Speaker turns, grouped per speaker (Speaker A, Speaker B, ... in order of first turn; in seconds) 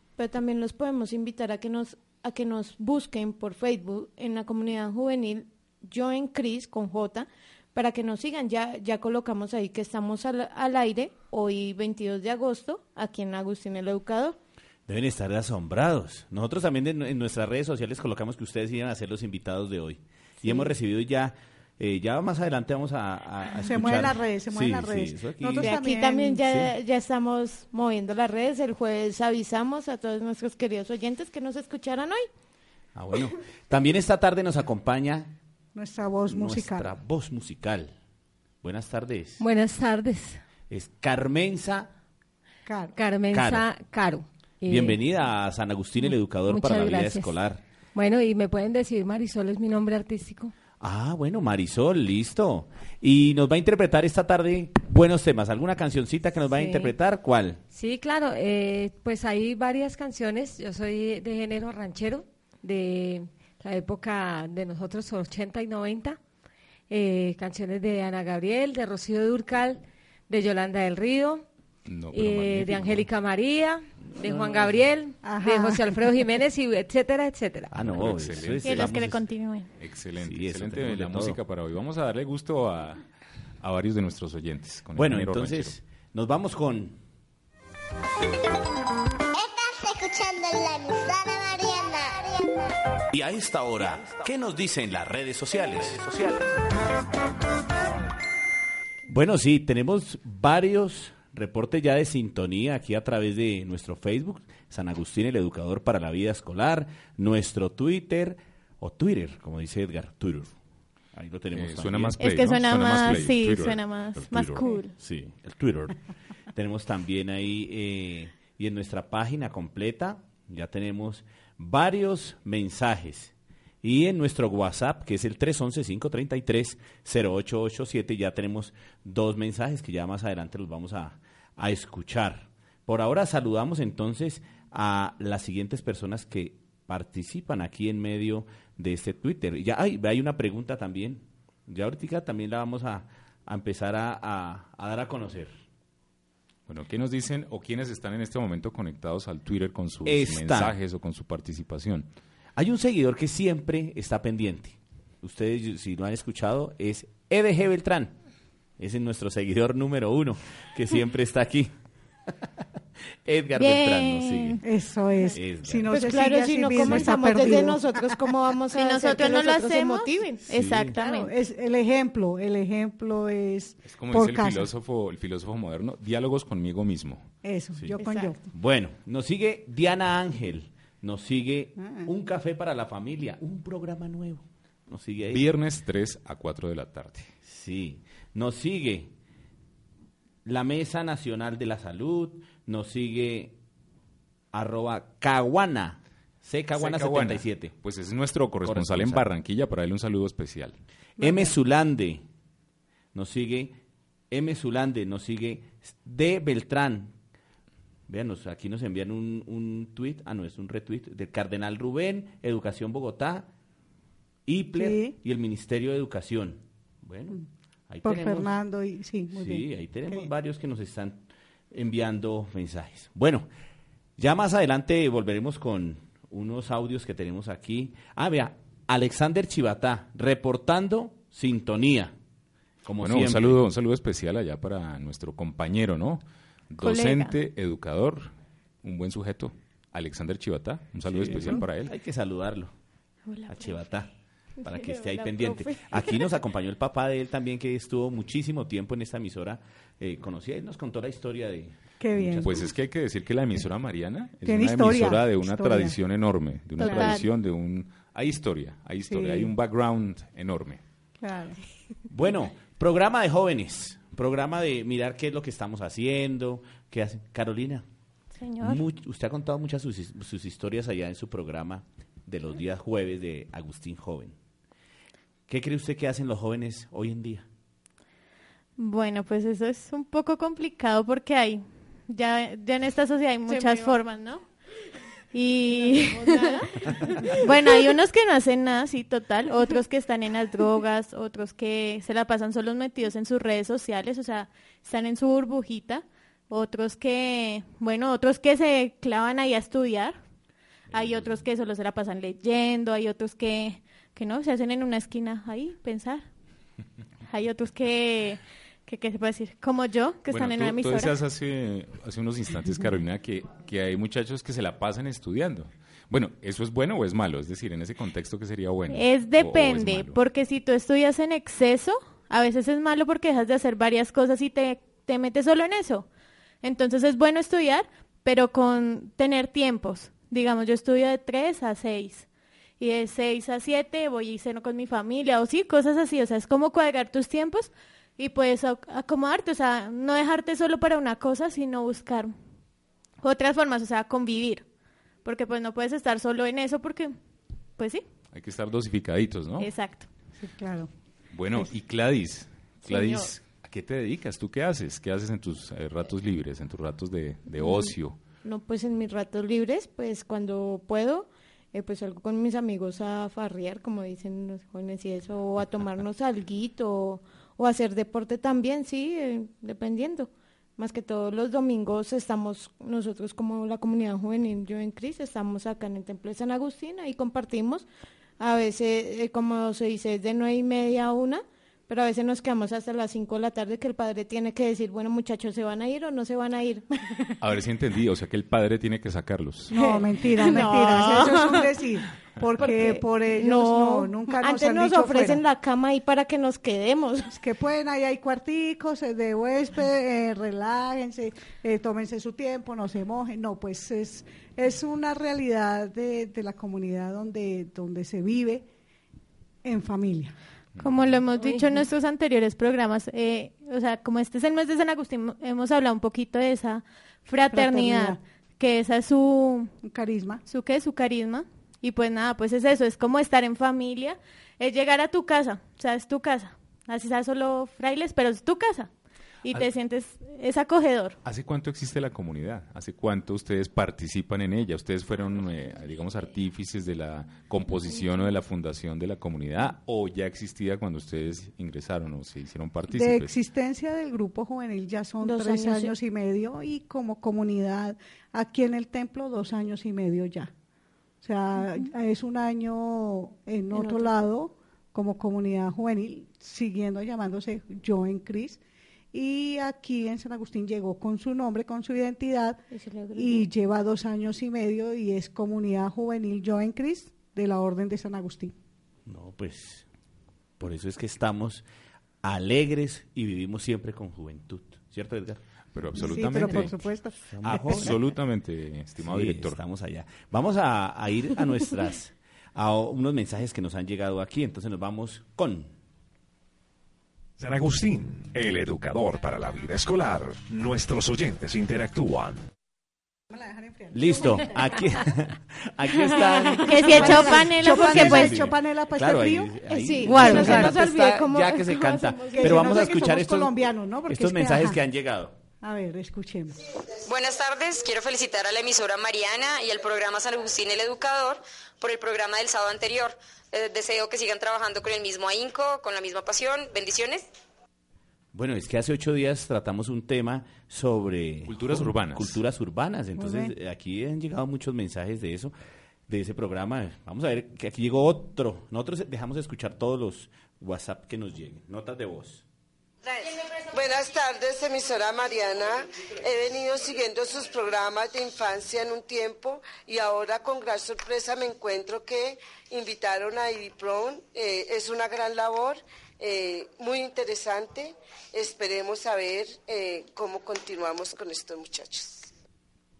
Speaker A: 0.2-14.4, 20.4-20.7, 25.6-32.2, 165.9-170.4, 177.9-178.3, 244.7-246.0, 283.5-284.0, 285.7-287.4, 358.4-377.9, 378.4-386.9, 389.8-391.6, 392.6-397.3, 445.2-445.9, 453.7-454.2, 462.7-463.5, 499.7-502.8
Speaker B: 14.9-25.7, 32.9-35.3, 36.3-37.9, 38.6-39.4, 40.7-41.9, 43.3-43.6, 44.6-47.6, 50.8-57.6, 74.3-74.6, 77.7-79.2, 80.2-81.4, 84.9-87.0, 93.1-96.5, 99.1-110.5, 111.1-112.2, 115.0-115.9, 116.5-123.3, 123.8-145.5, 150.0-150.8, 152.6-158.1, 158.8-161.7, 163.2-164.6, 165.3-165.9, 170.5-170.9, 178.5-185.4, 187.4-189.1, 190.4-193.5, 194.5-197.7, 198.6-199.2, 201.2-202.2, 203.1-203.7, 204.3-207.1, 208.1-213.5, 214.5-218.5, 219.3-223.4, 224.2-232.1, 232.8-233.6, 241.1-242.7, 243.5-244.1, 244.6-252.7, 262.1-267.8, 268.6-274.3, 275.5-277.4, 469.1-469.9, 470.6-471.6, 472.2-475.4, 476.4-476.7, 477.3-478.0, 479.0-485.7, 493.9-505.3, 518.3-525.5, 526.1-532.4
Speaker C: 23.6-26.4, 35.7-36.9, 42.6-42.9, 75.2-76.0, 164.6-168.0, 171.0-174.7, 177.4-178.4, 181.8-182.1, 201.2-201.5, 214.8-215.2, 218.0-220.3, 252.0-252.5, 254.4-255.9, 256.8-257.2, 259.1-259.5, 261.2-261.6, 350.4-350.9, 389.7-395.4, 397.3-408.6, 409.6-410.4, 417.5-418.2, 419.8-420.4, 442.9-450.5, 451.2-458.6, 459.1-462.6, 463.1-468.5, 475.9-477.9, 493.3-494.8, 496.4-499.5, 500.0-500.8, 502.3-504.8, 505.6-506.6, 523.2-523.5
Speaker D: 39.4-40.4, 43.0-45.0, 46.1-47.4, 47.9-50.5, 56.5-56.9, 57.7-66.2, 66.9-71.4, 72.1-77.7, 411.4-411.8
Speaker E: 71.8-73.1, 77.8-79.0, 79.8-83.0, 83.6-85.7, 111.5-114.7, 146.7-152.1, 173.8-177.2, 185.3-187.3, 196.8-200.8, 233.0-238.3, 238.8-241.9, 252.4-260.8, 301.0-301.2, 310.3-320.2, 348.3-349.7, 351.3-358.2, 387.4-389.7, 410.8-411.1, 431.2-443.3, 475.7-476.7, 477.5-479.6, 521.5-522.4
Speaker F: 78.6-79.7, 112.2-114.9, 163.5-164.6, 168.7-171.3, 236.8-237.3, 243.3-243.8, 256.8-257.2, 268.4-268.8, 278.8-284.4, 285.3-286.6, 287.3-300.1, 300.9-306.2, 307.3-311.1, 318.9-326.1, 326.6-332.3, 332.8-342.3, 343.2-344.6, 345.2-347.1, 347.8-348.0, 349.6-350.1, 352.9-353.3, 390.6-390.9, 410.8-419.7, 420.4-428.9, 429.4-431.2, 496.6-498.4
Speaker G: 89.3-92.7
Speaker H: 487.4-492.4
Speaker I: 507.0-517.2
Speaker J: 533.1-552.3